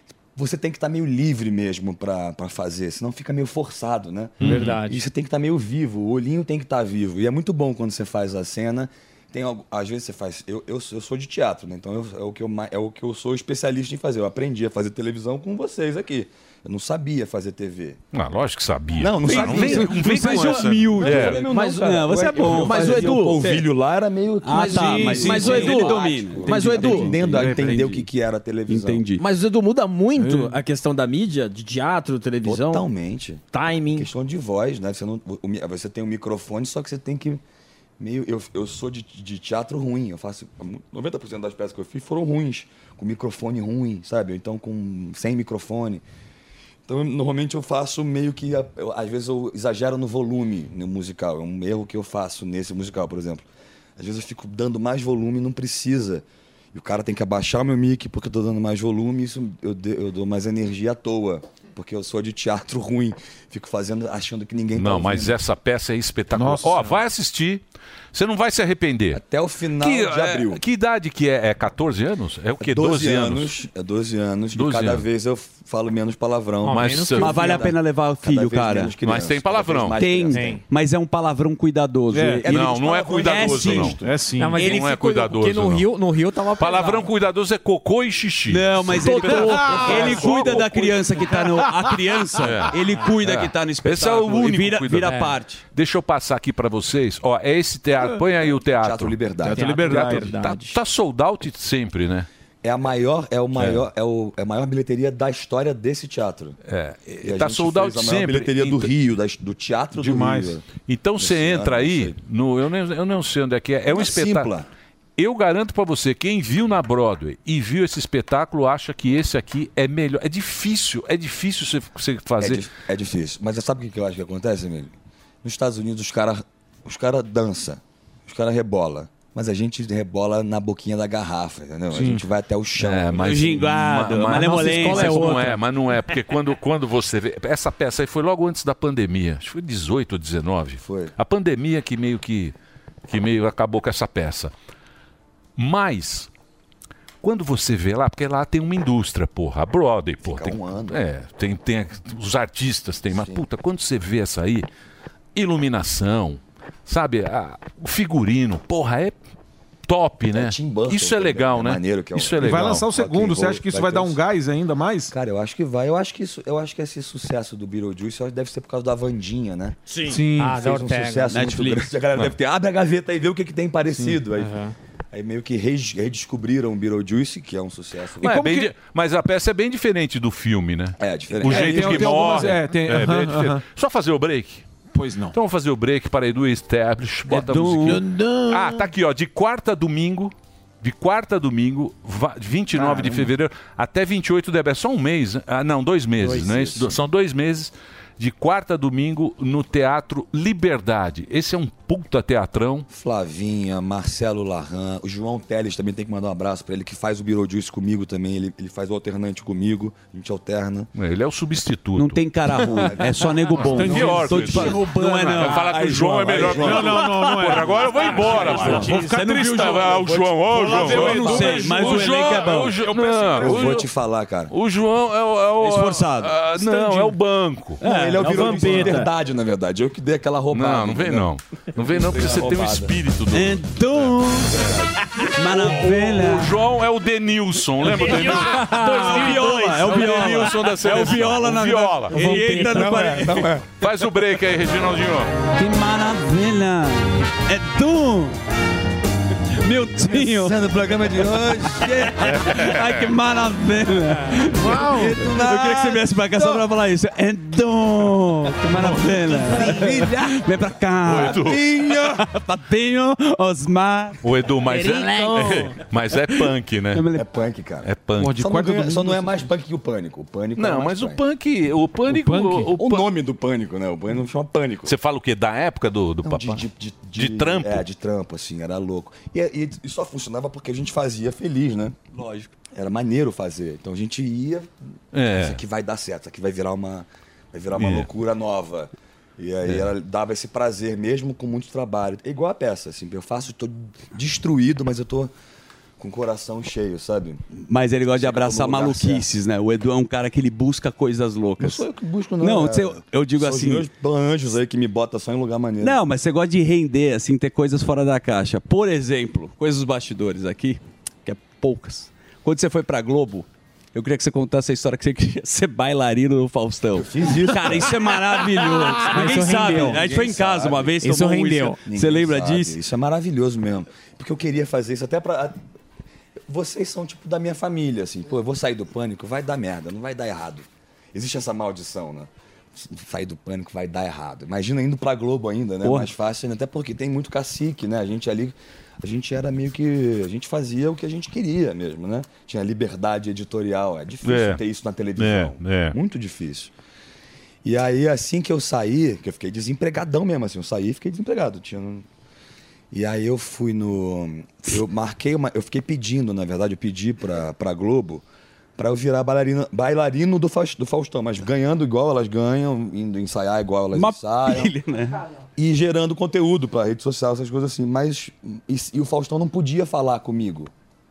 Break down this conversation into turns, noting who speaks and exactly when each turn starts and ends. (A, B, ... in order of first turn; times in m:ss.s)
0:00.4-0:18.0 A
0:04.4-0:04.8 B
0:04.4-0:04.7 C
0:04.4-0:05.0 D
0:18.1-0:21.5 B
0:19.0-0:29.0 A
0:19.2-0:21.4 C
0:19.3-0:23.6 E
0:21.2-0:23.6 F
0:22.6-0:23.2 C
0:24.4-0:28.1 E
0:24.6-0:27.1 F
0:24.6-0:27.9 C
0:28.7-0:29.2 E
0:29.2-0:32.9 F
0:30.2-0:30.6 C
0:32.4-0:33.4 A
0:33.5-0:34.1 F
0:34.0-0:37.4 A
0:38.0-0:46.0 A
0:46.9-0:53.4 A
0:54.0-1:05.4 A
1:04.8-1:07.6 B
1:06.3-1:07.0 C
1:08.1-1:09.2 B
1:09.1-1:10.6 A
1:09.8-1:13.5 B
1:12.6-1:20.6 A
1:14.5-1:15.0 B
1:16.6-1:17.7 D
1:16.7-1:17.6 B
1:17.2-1:19.0 E
1:19.0-1:20.0 B
1:20.0-1:24.0 E
1:20.3-1:20.6 D
1:22.1-1:22.5 C
1:22.5-1:24.0 B
1:22.5-1:24.2 A
1:24.0-1:24.7 C
1:24.4-1:27.1 D
1:24.5-1:26.0 B
1:24.6-1:24.9 E
1:26.6-1:31.1 B
1:28.5-1:35.6 E
1:29.2-1:30.6 C
1:29.9-1:30.3 A
1:31.3-1:31.7 C
1:32.4-1:35.2 B
1:35.0-1:35.4 D
1:35.7-1:42.3 B
1:38.7-1:39.8 A
1:39.5-1:40.8 D
1:39.5-1:40.3 C
1:42.6-1:46.6 A
1:43.5-1:43.9 B
1:46.7-1:48.9 B
1:47.2-1:50.7 A
1:50.0-1:50.6 C
1:50.7-1:54.5 B
1:51.2-1:52.2 A
1:53.9-1:54.7 A
1:55.2-2:02.7 B
2:02.4-2:04.9 A
2:05.4-2:13.4 A
2:11.9-2:12.2 B
2:12.8-2:22.6 B
2:13.2-2:15.6 E
2:14.3-2:15.6 D
2:20.8-2:21.1 A
2:23.1-2:24.5 B
2:25.6-2:26.3 B
2:27.2-2:34.7 B
2:30.2-2:31.0 A
2:33.1-2:33.4 A
2:35.4-2:39.2 B
2:39.9-2:42.9 B
2:40.3-2:44.2 A
2:42.4-2:45.1 C
2:45.1-2:49.8 A
2:50.0-2:50.6 C
2:50.4-2:51.3 D
2:50.4-2:54.6 A
2:51.3-2:51.9 E
2:54.4-2:54.7 D
2:55.1-2:58.5 A
2:58.2-3:04.6 B
2:58.2-2:58.7 C
3:01.0-3:02.5 A
3:01.4-3:03.6 C
3:04.9-3:05.4 C
3:05.3-3:22.9 B
3:07.3-3:08.0 E
3:07.8-3:08.9 C
3:12.7-3:13.3 C
3:16.2-3:17.0 A
3:22.9-3:30.9 A
3:31.0-3:32.2 B
3:32.0-3:42.9 E
3:32.7-3:34.7 A
3:33.6-3:43.9 B
3:33.8-3:43.7 C
3:36.1-3:36.9 A
3:41.4-3:41.7 A
3:43.4-3:44.5 A
3:44.5-3:47.8 B
3:45.6-3:46.4 E
3:46.6-3:47.0 A
3:47.8-3:49.1 E
3:47.8-3:51.3 A
3:48.2-3:49.1 F
3:50.5-4:02.3 B
3:51.8-3:52.9 A
3:53.3-3:54.8 E
3:55.3-3:56.6 E
3:57.8-4:03.6 E
3:58.2-3:59.4 D
4:02.1-4:03.2 D
4:02.7-4:03.4 C
4:02.7-4:03.6 A
4:03.7-4:05.3 B
4:05.6-4:08.4 E
4:09.6-4:10.6 E
4:10.0-4:12.2 A
4:11.7-4:24.2 E
4:12.2-4:13.1 B
4:14.6-4:15.3 C
4:14.8-4:16.6 A
4:18.7-4:20.3 A
4:19.5-4:20.1 C
4:21.0-4:21.7 B
4:21.1-4:22.3 A
4:24.2-4:27.1 B
4:24.7-4:25.8 D
4:26.1-4:27.3 E
4:27.2-4:31.2 A
4:27.8-4:28.4 B
4:28.2-4:29.5 C
4:30.6-4:33.1 B
4:32.1-4:32.7 C
4:32.8-4:35.0 A
4:34.8-4:37.8 B
4:36.2-4:42.0 A
4:42.1-4:42.5 E
4:42.7-4:44.7 A
4:45.1-4:45.6 B
4:45.4-4:55.3 A
4:47.7-4:48.1 B
4:56.0-4:57.4 A
4:57.6-5:01.8 E
4:58.1-4:59.2 A
5:01.6-5:06.0 A
5:02.4-5:03.9 E
5:05.8-5:22.8 E
5:17.0-5:18.0 A
5:19.0-5:20.1 D
5:19.1-5:21.0 A
5:21.0-5:21.8 D
5:21.8-5:25.6 A
5:26.5-5:46.7 A
5:35.8-5:36.1 E
5:44.2-5:44.6 B
5:45.2-5:46.0 B
5:47.6-5:52.0 A
5:52.9-5:58.2 A
5:58.8-6:04.7 A
6:03.9-6:05.2 E
6:05.6-6:10.7 A